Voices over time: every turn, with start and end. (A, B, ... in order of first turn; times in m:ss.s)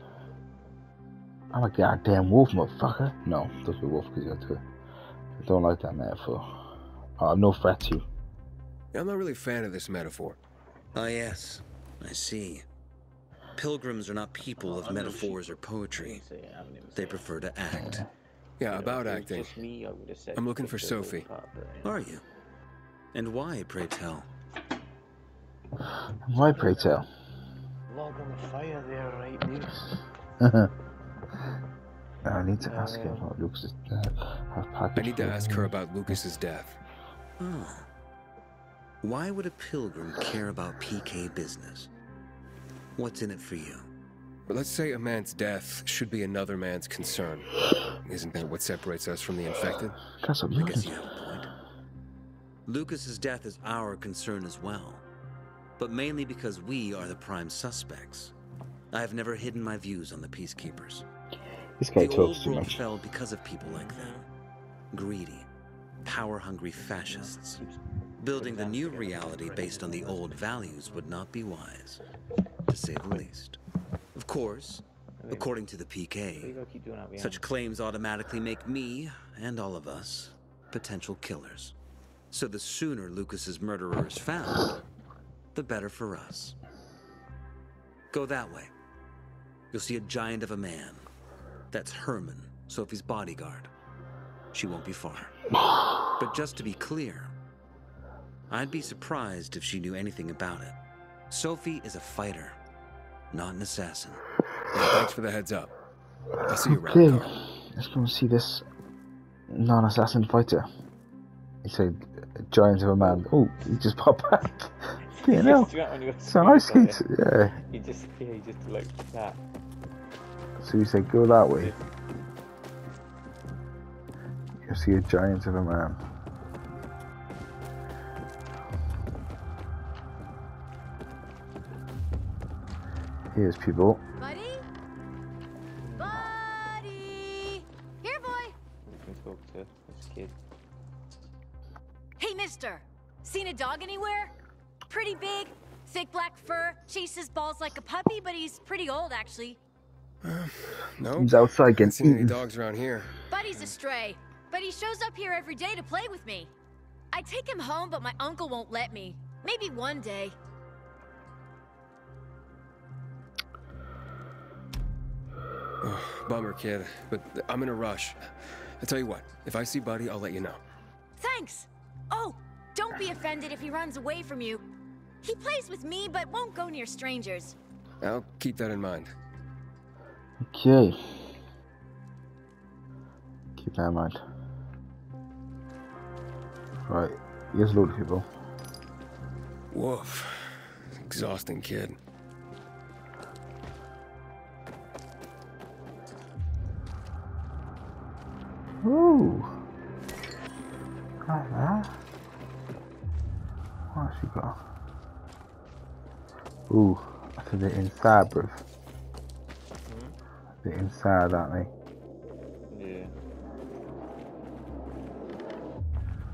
0:01.5-0:04.6 A
0:05.4-0:06.6 A
0:07.2-0:08.0 A
0:08.9-0:10.4 B
0:10.9-0:12.6 C
0:13.6-0:16.2 C
0:14.6-0:17.3 D
0:17.0-0:18.0 C
0:17.8-0:18.1 A
0:18.6-0:19.6 B
0:18.7-0:22.0 D
0:20.4-0:21.2 B
0:21.8-0:22.2 C
0:23.1-0:24.3 C
0:26.2-0:27.1 A
0:27.9-0:30.0 D
0:30.4-0:30.7 A
0:32.2-0:35.7 A
0:32.6-0:33.3 D
0:35.0-0:36.8 B
0:37.4-0:37.9 C
0:39.0-0:41.9 C
0:43.0-0:43.9 C
0:44.5-0:47.5 B
0:48.0-0:50.0 B
0:50.2-0:50.9 A
0:50.6-0:51.5 C
0:52.7-0:55.0 C
0:55.8-0:58.3 C
0:58.9-1:01.1 C
1:01.8-1:02.8 A
1:02.0-1:04.2 C
1:03.7-1:04.2 D
1:04.9-1:05.5 C
1:06.0-1:07.6 C
1:06.8-1:11.1 D
1:08.2-1:12.0 C
1:12.7-1:13.6 C
1:14.2-1:16.6 C
1:15.2-1:15.6 D
1:16.3-1:17.5 D
1:17.2-1:21.7 C
1:22.3-1:24.8 C
1:25.6-1:26.6 C
1:28.1-1:28.7 C
1:29.7-1:31.1 C
1:31.7-1:33.7 C
1:34.5-1:35.3 C
1:36.2-1:37.3 C
1:38.5-1:40.8 C
1:41.3-1:42.6 C
1:43.3-1:44.2 C
1:44.7-1:45.7 B
1:46.4-1:47.3 B
1:46.5-1:48.6 A
1:49.5-1:50.7 A
1:51.6-1:54.7 A
1:53.0-1:53.7 D
1:55.0-1:57.0 D
1:55.2-1:55.7 A
1:56.2-1:57.6 A
1:57.7-1:59.4 D
2:00.6-2:01.7 A
2:01.5-2:01.8 D
2:04.6-2:06.0 A
2:13.3-2:14.0 A
2:14.2-2:14.6 E
2:15.8-2:16.3 D
2:16.0-2:18.6 E
2:18.8-2:20.4 D
2:22.2-2:24.3 E
2:24.9-2:29.6 E
2:30.2-2:33.1 B
2:31.2-2:32.4 A
2:33.3-2:36.5 E
2:37.1-2:40.4 E
2:45.8-2:50.6 B
2:51.2-2:54.6 E
2:55.2-2:57.6 E
2:58.0-2:59.1 B
3:00.4-3:01.4 A
3:03.6-3:04.2 A
3:06.9-3:08.3 A
3:09.7-3:12.0 B
3:18.8-3:19.6 A
3:21.2-3:21.9 A
3:23.9-3:24.6 A
3:26.7-3:28.6 A
3:29.9-3:30.2 D
3:30.6-3:31.7 A
3:32.7-3:33.1 D